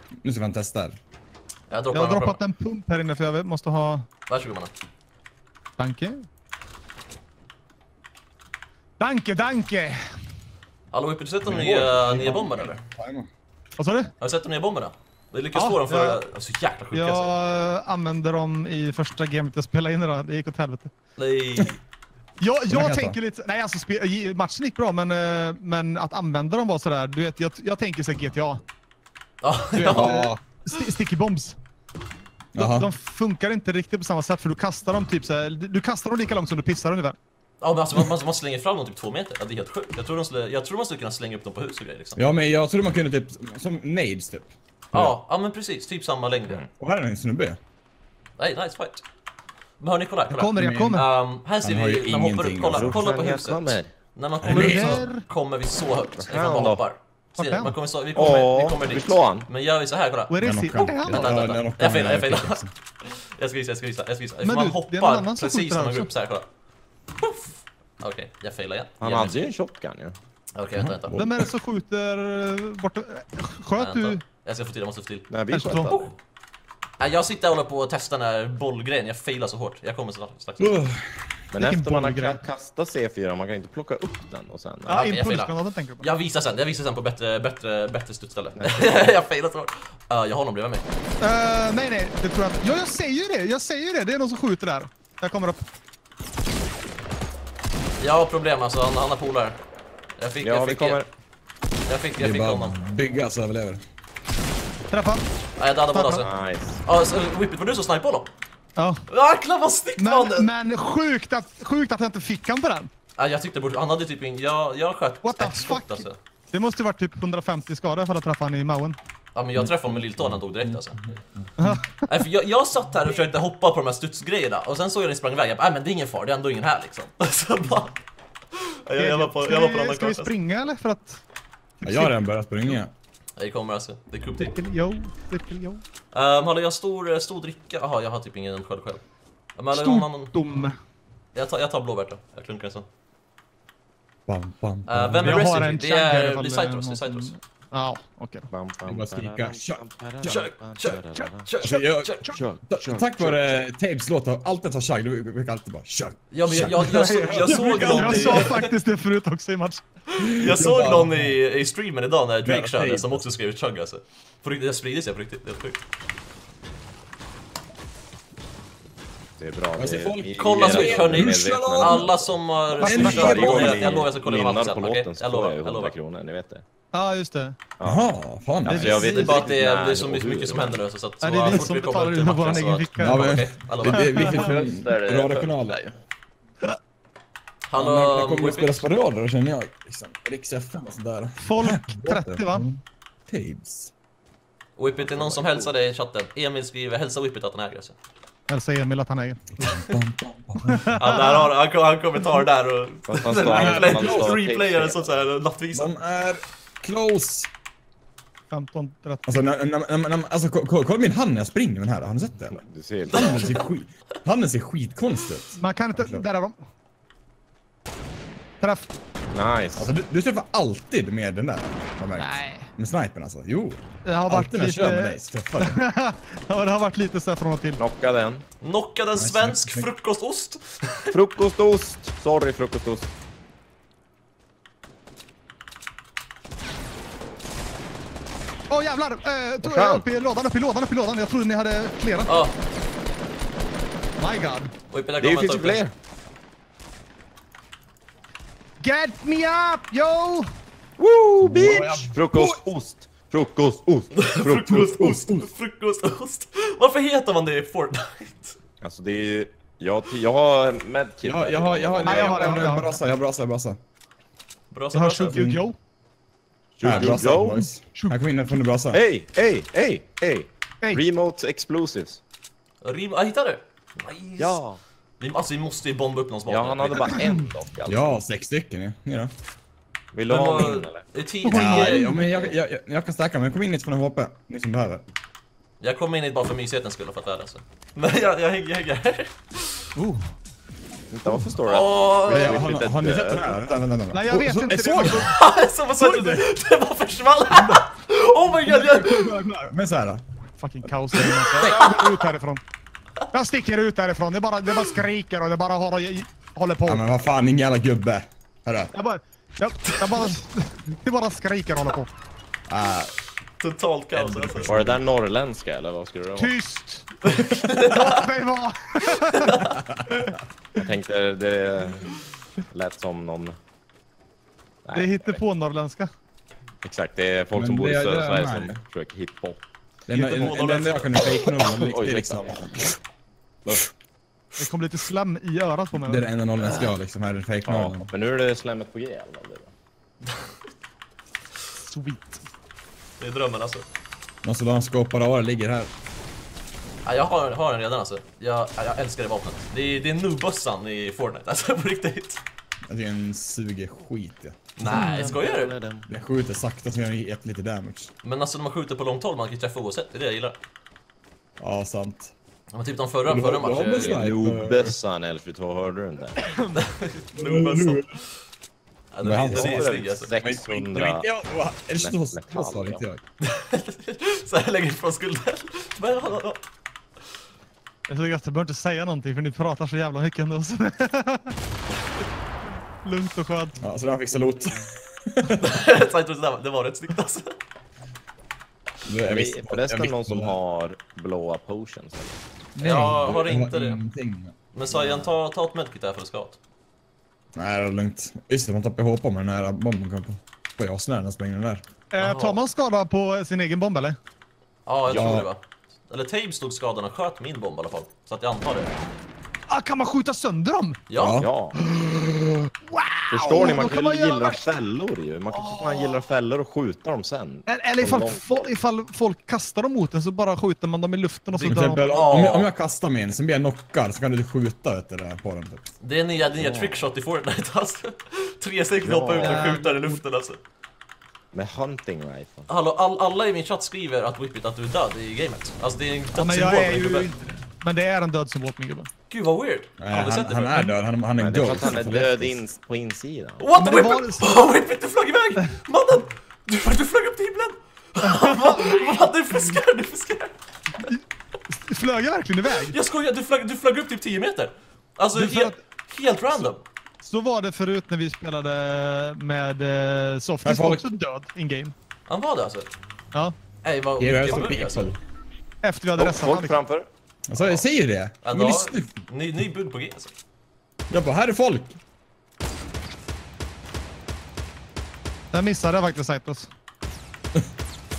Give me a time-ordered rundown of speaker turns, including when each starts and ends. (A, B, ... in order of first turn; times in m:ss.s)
0:00.2-0:01.0 A
0:01.7-0:02.4 B
0:01.9-0:04.1 C
0:04.3-0:04.7 B
0:05.8-0:06.1 C
0:09.0-0:10.0 C
0:10.9-0:12.8 B
0:11.4-0:13.3 A
0:13.8-0:14.1 C
0:14.2-0:17.3 B
0:15.5-0:16.2 C
0:16.9-0:20.9 C
0:21.2-0:21.8 B
0:22.4-0:28.6 C
0:22.7-0:23.2 A
0:29.4-0:30.2 B
0:29.7-0:31.6 C
0:29.9-0:30.4 A
0:32.5-0:32.9 A
0:32.6-0:37.2 C
0:37.6-0:42.2 B
0:42.2-0:45.2 A
0:44.9-0:46.6 B
0:46.8-0:47.6 A
0:48.4-0:49.0 B
0:49.8-1:00.4 B
0:50.3-0:51.0 C
0:50.6-0:51.0 A
0:51.6-0:53.0 A
0:52.7-0:53.9 D
0:54.4-0:55.0 A
0:54.6-0:55.2 C
0:56.2-0:56.8 D
0:57.4-0:57.8 C
0:58.1-0:59.5 D
1:00.3-1:01.3 C
1:00.4-1:02.7 A
1:01.0-1:06.5 B
1:04.4-1:06.1 C
1:07.2-1:09.4 B
1:09.0-1:10.1 D
1:10.5-1:11.2 B
1:10.8-1:11.5 A
1:11.1-1:14.2 C
1:13.8-1:16.2 B
1:15.3-1:16.1 D
1:15.5-1:16.0 C
1:17.0-1:20.7 B
1:20.6-1:21.4 A
1:21.5-1:25.1 D
1:21.6-1:22.4 C
1:24.8-1:26.1 C
1:25.0-1:30.9 B
1:28.6-1:29.1 D
1:31.2-1:35.6 C
1:38.0-1:39.6 B
1:40.2-1:41.0 B
1:40.4-1:41.1 D
1:41.8-1:42.8 B
1:42.2-1:43.8 A
1:44.9-1:45.2 C
1:45.6-1:46.3 B
1:45.9-1:46.3 C
1:46.2-1:46.8 D
1:46.8-1:48.3 B
1:48.8-1:49.0 C
1:49.1-1:50.5 B
1:50.0-1:52.9 C
1:53.2-1:56.2 B
1:55.2-1:59.0 C
1:59.3-2:01.1 B
1:59.5-2:01.8 A
2:01.6-2:02.1 C
2:02.1-2:08.0 B
2:08.5-2:10.3 B
2:09.0-2:11.2 C
2:11.8-2:12.1 C
2:11.8-2:12.9 A
2:13.4-2:14.6 B
2:14.3-2:15.8 C
2:16.1-2:19.0 B
2:19.6-2:20.4 B
2:19.7-2:20.7 C
2:21.3-2:22.9 B
2:24.3-2:25.4 A
2:24.8-2:27.4 B
2:25.2-2:28.5 C
2:28.5-2:31.6 D
2:28.8-2:29.8 A
2:30.2-2:32.3 B
2:31.1-2:32.4 C
2:31.6-2:38.4 A
2:32.3-2:33.5 D
2:36.3-2:38.7 B
2:36.6-2:39.8 C
2:40.1-2:45.8 B
2:40.4-2:41.4 A
2:42.4-2:43.2 A
2:49.4-2:56.6 D
2:49.8-2:52.1 A
2:50.3-2:56.0 B
2:52.8-2:53.4 C
2:52.8-2:54.0 A
2:56.9-2:57.6 C
2:57.8-2:58.0 D
2:57.8-2:59.2 A
2:58.6-2:59.4 C
2:58.7-3:00.8 D
2:59.0-3:04.1 B
3:01.2-3:03.2 C
3:03.0-3:05.8 A
3:03.8-3:04.6 C
3:04.3-3:06.0 D
3:07.7-3:08.9 B
3:07.8-3:13.9 A
3:11.4-3:12.7 C
3:14.8-3:18.0 B
3:15.0-3:15.7 D
3:18.5-3:19.4 C
3:19.6-3:20.0 B
3:19.6-3:20.9 A
3:20.7-3:21.3 C
3:21.0-3:26.0 B
3:23.1-3:25.1 D
3:23.4-3:24.4 A
3:25.7-3:27.5 A
3:28.5-3:29.4 C
3:29.3-3:36.2 A
3:32.5-3:33.4 D
3:33.1-3:33.7 B
3:35.5-3:36.6 C
3:38.6-3:38.9 C
3:39.3-3:39.9 D
3:39.8-3:45.8 A
3:42.2-3:42.6 C
3:44.1-3:47.8 C
3:47.8-3:48.4 D
3:48.6-3:51.4 B
3:49.2-3:49.9 A
3:51.1-3:53.1 D
3:58.7-4:02.4 C
3:59.6-4:00.0 D
4:02.2-4:02.5 B
4:04.2-4:04.7 C
4:04.9-4:05.8 B
4:05.2-4:05.9 D
4:08.8-4:10.4 C
4:11.0-4:15.1 D
4:11.4-4:12.4 A
4:14.1-4:18.6 B
4:15.0-4:15.4 A
4:18.8-4:22.8 D
4:21.2-4:23.8 A
4:22.0-4:23.0 C
4:24.7-4:25.4 B
4:24.9-4:25.8 C
4:25.3-4:25.6 A
4:26.8-4:27.6 D
4:26.8-4:29.0 A
4:26.9-4:28.5 C
4:28.9-4:32.2 D
4:32.8-4:34.6 B
4:34.4-4:34.8 D
4:35.2-4:37.2 B
4:36.5-4:38.2 D
4:37.9-4:39.3 A
4:40.1-4:41.1 D
4:40.3-4:42.1 B
4:41.4-4:42.2 C
4:41.5-4:45.0 A
4:42.2-4:42.6 D
4:45.8-4:49.9 B
4:50.0-4:50.3 C
4:51.1-4:53.6 D
4:51.6-4:52.6 B
4:52.3-4:55.3 A
4:54.1-4:55.3 C
4:55.2-4:59.4 B
4:56.0-4:56.4 A
4:58.7-5:00.2 A
4:58.9-4:59.7 C
5:00.6-5:02.6 C
5:01.6-5:02.1 A
5:01.6-5:02.0 B
5:03.3-5:07.1 C
5:06.8-5:08.9 A
5:08.9-5:12.1 C
5:09.8-5:10.4 B
5:12.7-5:13.1 A
5:13.6-5:14.8 B
5:14.1-5:15.0 A
5:14.6-5:16.5 D
5:16.3-5:19.6 C
5:17.2-5:18.3 B
5:19.2-5:19.6 B
5:19.8-5:20.0 A
5:20.2-5:20.8 C
5:20.8-5:22.2 D
5:22.7-5:23.6 D
5:24.8-5:25.4 D
5:24.9-5:26.1 C
5:26.8-5:29.6 D
5:27.5-5:28.8 A
5:30.1-5:32.9 A
5:30.1-5:31.5 B
5:31.5-5:33.0 D
5:34.6-5:36.3 C
5:35.9-5:38.1 A
5:36.6-5:36.9 D
5:37.6-5:39.7 D
5:41.8-5:42.4 C
5:43.2-5:43.8 B
5:44.4-5:45.9 A
5:47.0-5:52.4 B
5:52.9-5:54.6 A
5:54.8-5:55.7 B
5:54.8-5:56.1 D
5:56.1-5:58.1 A
5:58.2-6:00.6 B
6:01.6-6:02.3 A
6:02.7-6:04.2 B
6:03.2-6:05.0 A
6:03.9-6:06.4 D
6:06.4-6:06.8 C
6:06.7-6:08.3 B
6:07.3-6:08.1 A
6:09.1-6:10.3 B
6:09.2-6:13.2 A
6:09.4-6:11.2 D
6:12.0-6:13.0 D
6:13.4-6:16.6 B
6:18.1-6:21.5 C
6:23.0-6:23.8 C
6:23.8-6:25.7 A
6:25.6-6:27.6 B
6:29.0-6:30.6 A
6:29.3-6:32.4 D
6:32.8-6:33.2 C
6:32.8-6:34.0 B
6:33.0-6:34.5 A
6:34.7-6:36.6 B
6:34.9-6:35.4 D
6:37.6-6:41.8 A
6:42.1-6:44.2 C
6:42.2-6:42.6 B
6:44.8-6:48.9 B
6:45.1-6:45.5 D
6:45.1-6:45.5 A
6:49.7-6:51.0 C
6:51.1-6:51.4 B
6:51.2-6:51.5 A
6:51.4-6:51.8 D
6:51.7-6:54.7 C
6:53.3-6:58.4 D
6:55.5-6:56.2 C
6:57.6-7:02.1 C
7:01.5-7:02.7 B
7:01.7-7:05.8 A
7:06.0-7:10.6 B
7:06.5-7:07.0 D
7:09.0-7:09.7 D
7:09.4-7:10.2 C
7:11.5-7:12.7 D
7:12.7-7:17.3 B
7:16.3-7:19.1 C
7:19.3-7:21.0 B
7:20.0-7:22.6 A
7:21.4-7:23.6 D
7:23.6-7:30.5 B
7:23.7-7:24.6 C
7:28.2-7:29.0 C
7:31.0-7:33.0 C
7:32.6-7:36.8 B
7:35.3-7:35.8 C
7:37.2-7:41.9 C
7:40.6-7:41.0 A
7:42.3-7:42.9 B
7:43.8-7:45.1 B
7:44.2-7:45.2 A
7:45.8-7:46.8 C
7:46.2-7:47.1 D
7:47.5-7:49.2 A
7:48.4-7:50.3 B
7:51.1-7:52.0 A
7:55.5-7:56.7 C